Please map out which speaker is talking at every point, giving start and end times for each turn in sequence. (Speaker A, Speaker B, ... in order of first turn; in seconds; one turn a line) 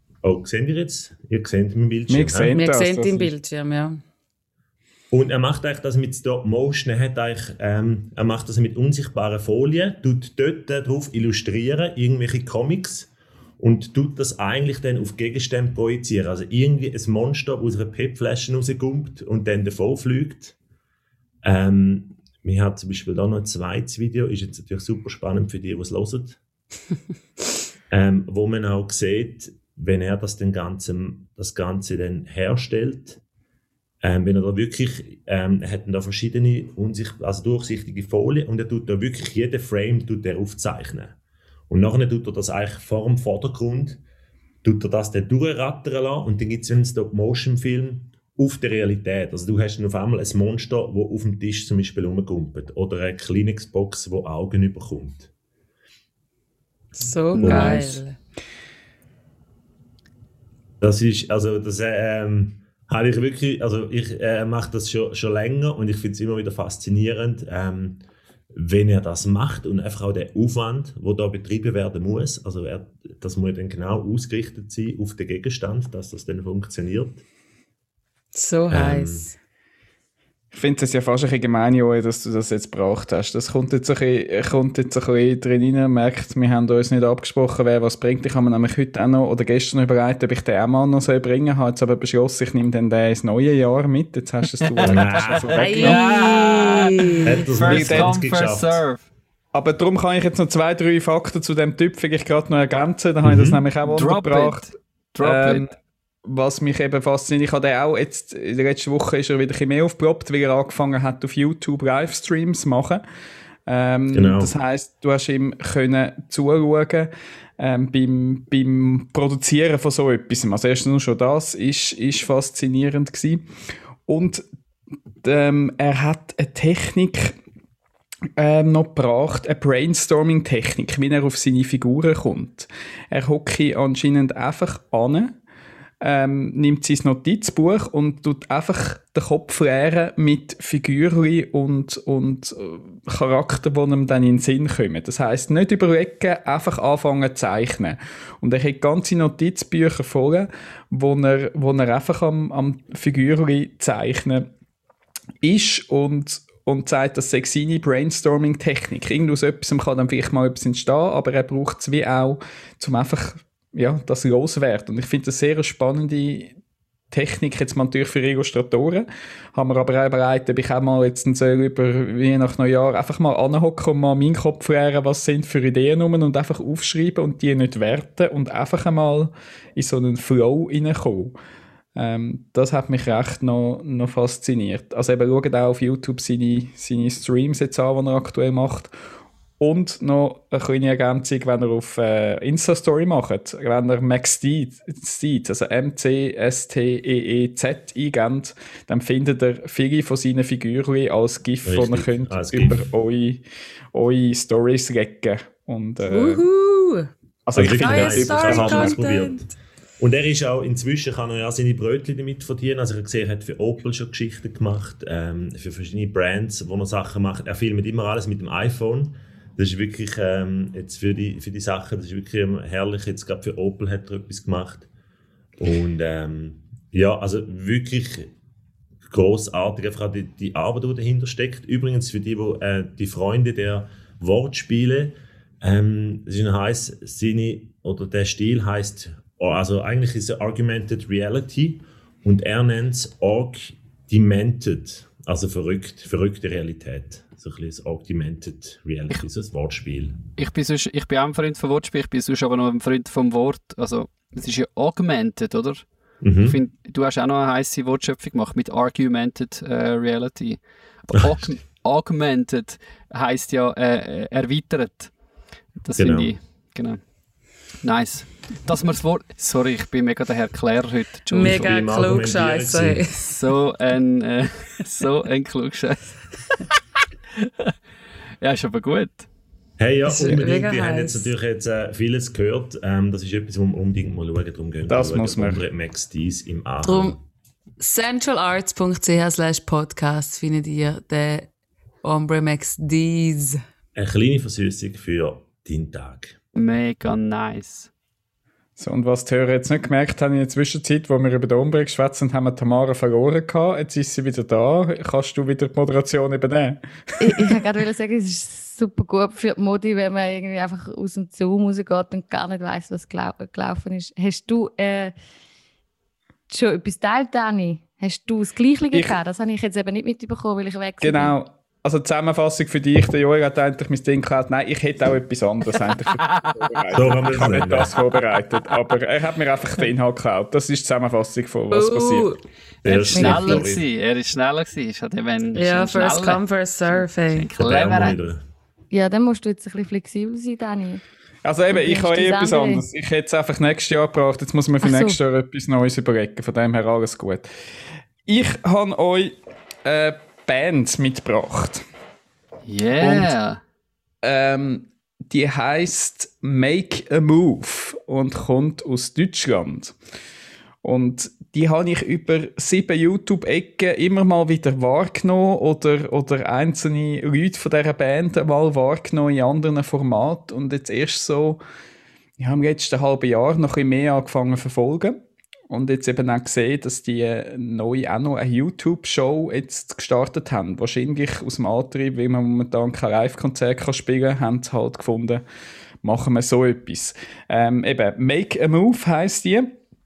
Speaker A: 0.2-2.5
Speaker B: 2.1-3.3
Speaker C: 2.5-4.0
Speaker A: 5.1-20.6
Speaker A: 21.4-26.4
Speaker A: 27.9-33.2
Speaker A: 34.0-41.2
Speaker A: 41.7-44.0
Speaker A: 44.6-55.3
Speaker C: 57.0-58.2
Speaker A: 57.4-58.0
Speaker A: 60.8-68.0
Speaker A: 68.5-77.2
Speaker C: 78.3-79.3
Speaker A: 78.7-79.3
Speaker B: 80.5-96.0
Speaker D: 94.6-99.0
Speaker A: 94.8-95.7
Speaker C: 95.6-97.5
Speaker A: 97.2-98.8
Speaker B: 97.6-98.2
Speaker B: 99.5-105.7
Speaker A: 103.2-103.6
Speaker D: 103.8-105.7
Speaker B: 106.2-113.0
Speaker B: 113.7-123.5
Speaker A: 114.1-114.5
Speaker B: 124.1-124.4
Speaker B: 125.2-127.4
Speaker B: 128.4-135.4
Speaker B: 136.0-154.5
Speaker B: 155.4-166.6
Speaker B: 167.1-181.3
Speaker B: 181.9-188.9
Speaker B: 189.6-206.4
Speaker A: 201.7-202.9
Speaker C: 206.1-207.1
Speaker B: 207.5-209.0
Speaker A: 207.6-209.4
Speaker C: 207.6-209.5
Speaker A: 210.0-224.9
Speaker A: 225.6-228.3
Speaker A: 229.1-250.2
Speaker D: 250.4-265.1
Speaker A: 256.2-256.6
Speaker A: 261.2-261.4
Speaker D: 265.8-267.0
Speaker A: 266.0-266.3
Speaker D: 267.8-272.0
Speaker C: 271.3-273.3
Speaker A: 271.4-273.0
Speaker D: 273.2-276.6
Speaker D: 277.4-277.7
Speaker D: 278.4-279.3
Speaker A: 279.8-287.2
Speaker C: 280.1-281.3
Speaker B: 284.9-285.6
Speaker C: 286.8-287.2
Speaker C: 287.8-291.5
Speaker C: 292.0-293.6
Speaker A: 293.9-296.4
Speaker D: 296.6-297.9
Speaker B: 298.8-307.6
Speaker E: 307.2-315.1
Speaker E: 316.5-321.4
Speaker B: 321.0-332.2
Speaker A: 326.9-327.9
Speaker C: 331.7-332.4
Speaker A: 332.8-333.8
Speaker D: 333.0-338.2
Speaker E: 333.1-333.7
Speaker C: 335.6-337.5
Speaker A: 337.6-338.4
Speaker E: 338.9-341.0
Speaker B: 341.4-347.5
Speaker E: 341.7-342.9
Speaker E: 344.8-345.2
Speaker B: 348.3-351.9
Speaker D: 352.7-353.6
Speaker B: 353.0-353.3
Speaker B: 354.2-359.9
Speaker B: 360.8-371.6
Speaker B: 372.4-385.4
Speaker B: 386.0-389.7